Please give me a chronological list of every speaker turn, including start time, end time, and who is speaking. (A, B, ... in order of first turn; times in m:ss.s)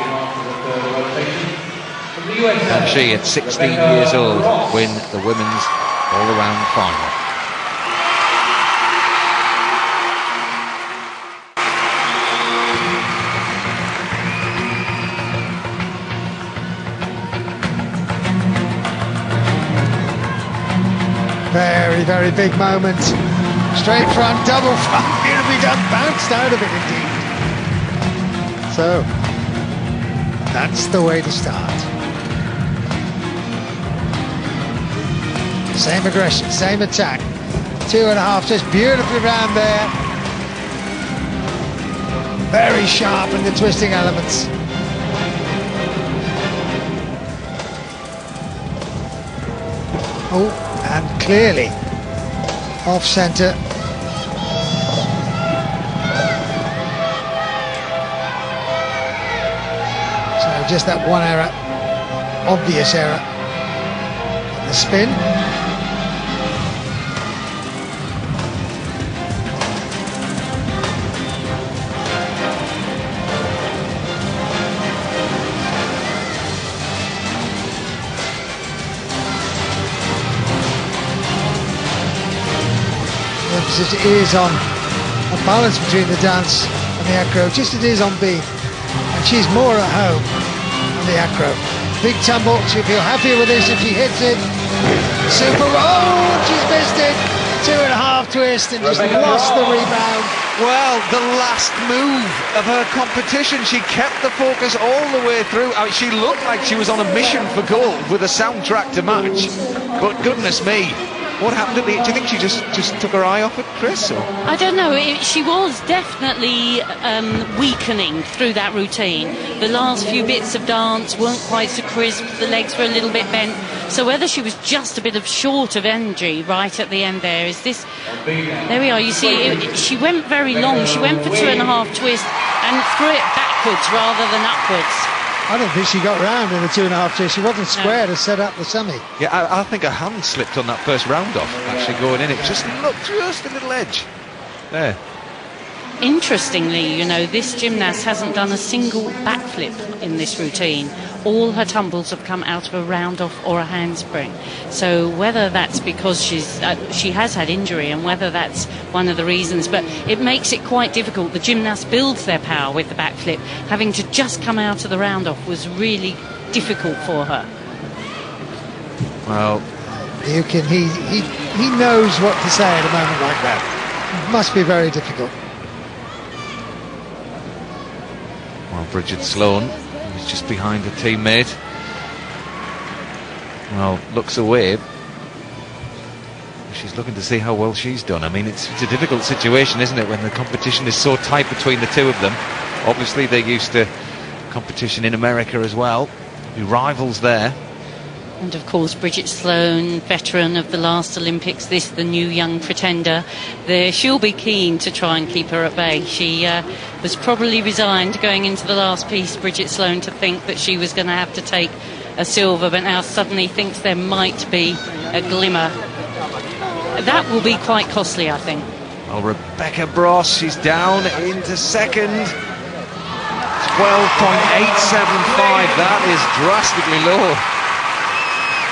0:01.1-0:01.4 A
0:02.3-0:07.2 A
0:21.5-0:23.2 B
0:23.7-0:27.2 B
0:28.7-0:29.1 B
0:30.5-0:31.9 B
0:35.7-0:37.3 B
0:37.8-0:39.9 B
0:42.5-0:44.5 B
0:50.3-0:51.8 B
0:52.9-0:53.6 B
1:00.4-1:01.6 B
1:02.5-1:03.2 B
1:04.5-1:05.2 B
1:23.5-1:24.6 B
1:25.3-1:28.5 B
1:29.1-1:30.3 B
1:30.9-1:34.4 B
1:35.3-1:40.4 B
1:40.6-1:54.3 A
1:54.4-2:15.1 C
2:15.5-2:19.0 B
2:17.7-2:18.0 C
2:19.2-2:24.1 A
2:24.7-2:25.0 A
2:26.0-2:47.5 C
2:49.3-2:49.6 A
2:50.2-2:55.3 B
2:58.7-3:01.6 A
3:03.7-3:04.8 A
3:06.7-3:13.9 A
3:14.5-3:17.6 A
3:18.4-3:35.8 C
3:37.0-3:38.7 C
3:39.1-3:42.4 A
3:43.6-3:47.4 A